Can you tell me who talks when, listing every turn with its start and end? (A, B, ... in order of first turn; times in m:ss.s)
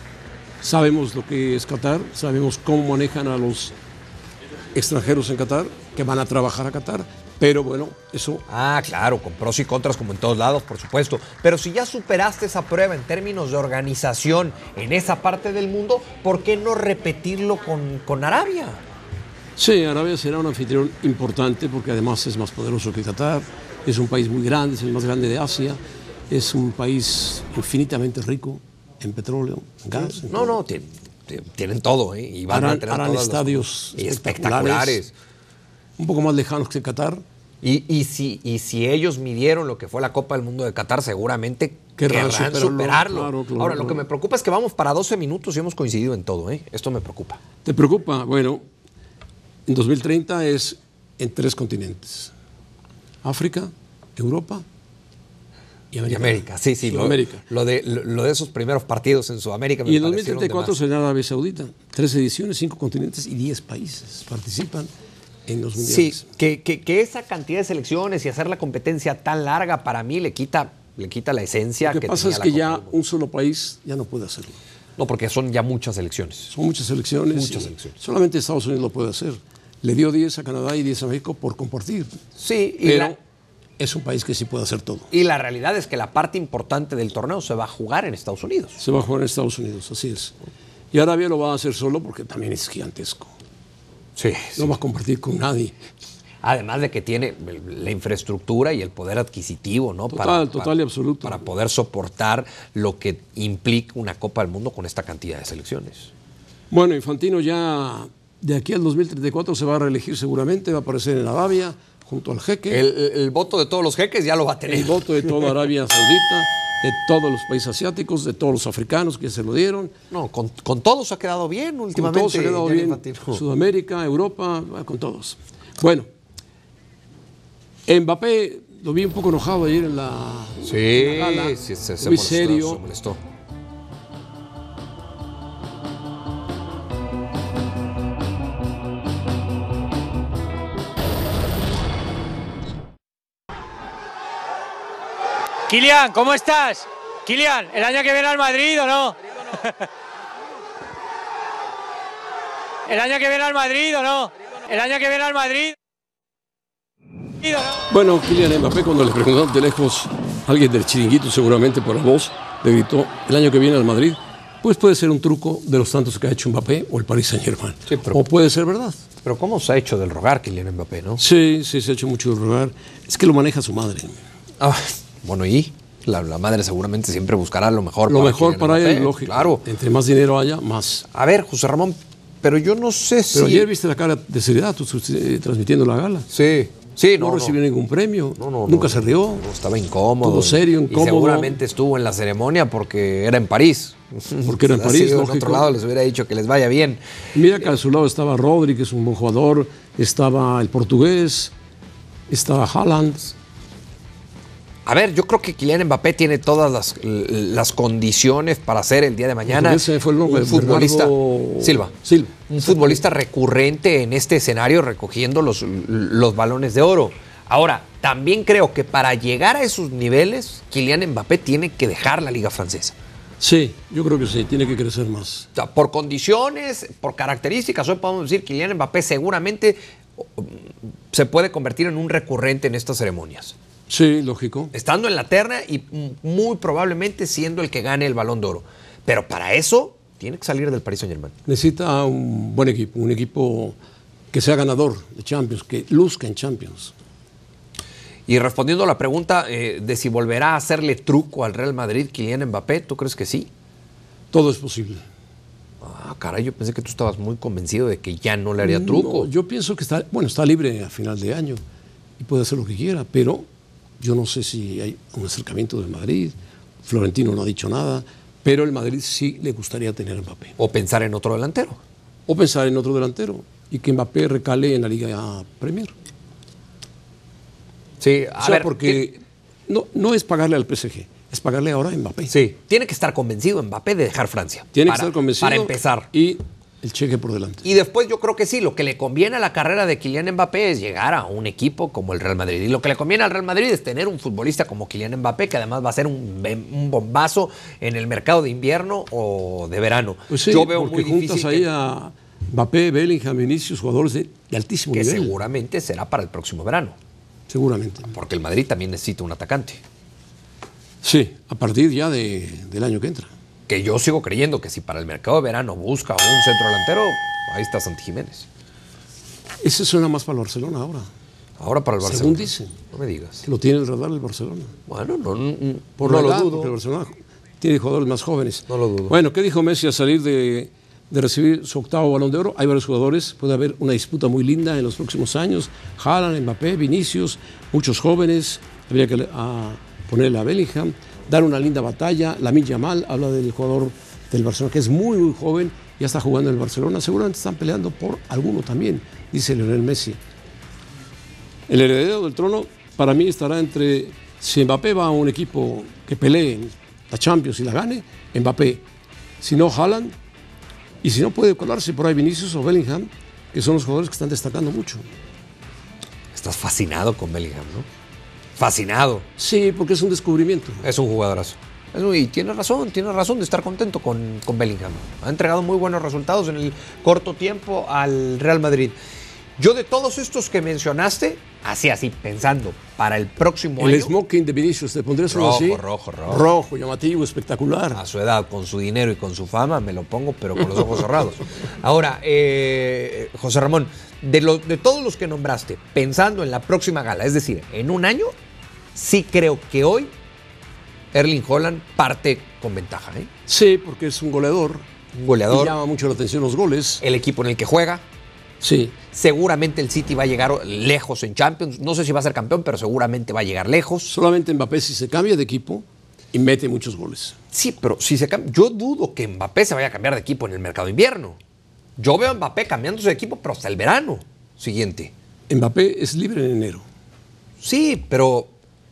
0:00.6-0:03.7 A
0:04.7-0:08.4 A
0:08.5-0:18.8 B
0:19.6-0:25.8 A
0:26.3-0:30.6 A
0:30.0-0:35.1 B
0:32.5-0:35.0 A
0:36.0-0:37.2 A
0:37.6-0:47.4 B
0:42.0-0:44.0 A
0:47.6-0:48.6 A
0:49.7-0:52.3 A
0:53.2-0:54.6 A
0:55.9-0:57.4 A
0:56.1-1:00.8 B
0:59.8-1:04.9 A
1:05.5-1:06.3 A
1:05.8-1:13.0 B
1:11.8-1:14.6 A
1:15.0-1:16.5 B
1:16.5-1:22.1 A
1:17.3-1:17.9 B
1:22.4-1:23.2 B
1:22.8-1:23.2 A
1:23.8-1:25.1 A
1:25.1-1:28.8 B
1:28.8-1:30.4 A
1:30.9-1:33.3 A
1:34.2-1:34.7 B
1:34.6-1:35.8 A
1:36.4-1:46.1 B
1:40.1-1:41.4 A
1:46.7-1:52.8 A
1:52.7-1:55.5 B
1:54.7-1:59.9 A
2:00.1-2:03.4 B
2:01.9-2:06.1 A
2:07.9-2:12.8 A
2:10.6-2:13.2 B
2:25.7-2:29.9 C
2:32.9-2:35.8 C
2:37.4-2:37.8 C
2:37.9-2:49.0 A
2:47.9-2:48.2 B
2:49.2-2:51.2 B
2:51.2-2:54.2 A
2:54.6-2:59.7 B
2:58.1-3:01.0 A
3:01.1-3:03.7 B
3:03.3-3:06.3 A
3:06.3-3:07.6 B
3:07.2-3:09.5 A
3:08.4-3:17.0 B
3:10.2-3:11.6 A
3:14.4-3:15.7 A
3:17.3-3:21.5 A
3:22.3-3:23.4 A
3:24.9-3:31.9 B
3:29.5-3:33.0 A
3:32.5-3:43.0 B
3:43.4-3:45.5 A
3:45.6-3:53.5 B
3:53.9-3:54.7 A
3:54.7-4:01.3 B
4:01.5-4:03.8 A
4:04.3-4:06.9 A
4:08.3-4:13.5 B
4:14.3-4:15.0 A
4:15.8-4:19.3 B
4:18.6-4:21.6 A
4:22.2-4:23.5 A
4:24.0-4:30.6 A
4:30.6-4:31.8 B
4:32.3-4:35.9 A
4:38.0-4:39.1 B
4:38.4-4:42.3 A
4:42.3-4:46.1 B
4:44.7-4:47.7 A
4:47.6-5:01.7 B
5:00.3-5:05.4 A
5:04.9-5:07.0 B
5:07.5-5:08.1 A
5:08.1-5:09.8 B
5:11.0-5:13.3 A
5:13.7-5:18.5 B
5:19.6-5:21.1 A
5:21.6-5:23.4 B
5:22.0-5:22.8 A
5:23.4-5:24.7 A
5:24.9-5:26.7 B
5:26.0-5:50.2 A
5:28.7-5:29.2 B
5:51.7-5:58.8 A
5:59.4-6:00.2 A
6:01.0-6:05.0 A
6:06.3-6:07.9 B
6:08.6-6:09.3 B
6:09.4-6:10.9 A
6:10.8-6:19.0 B
6:19.6-6:24.2 B
6:23.8-6:28.0 A
6:25.3-6:26.5 B
6:27.9-6:38.3 B
6:39.0-6:40.1 B
6:41.1-6:43.3 B
6:43.5-6:44.9 A
6:45.1-6:45.8 B
6:45.5-6:47.0 A
6:47.0-6:48.0 B
6:48.6-6:49.0 A
6:49.1-6:54.2 B
6:54.1-6:57.4 A
6:57.5-7:01.4 B
7:02.0-7:05.1 B
7:05.5-7:06.8 A
7:07.6-7:08.5 B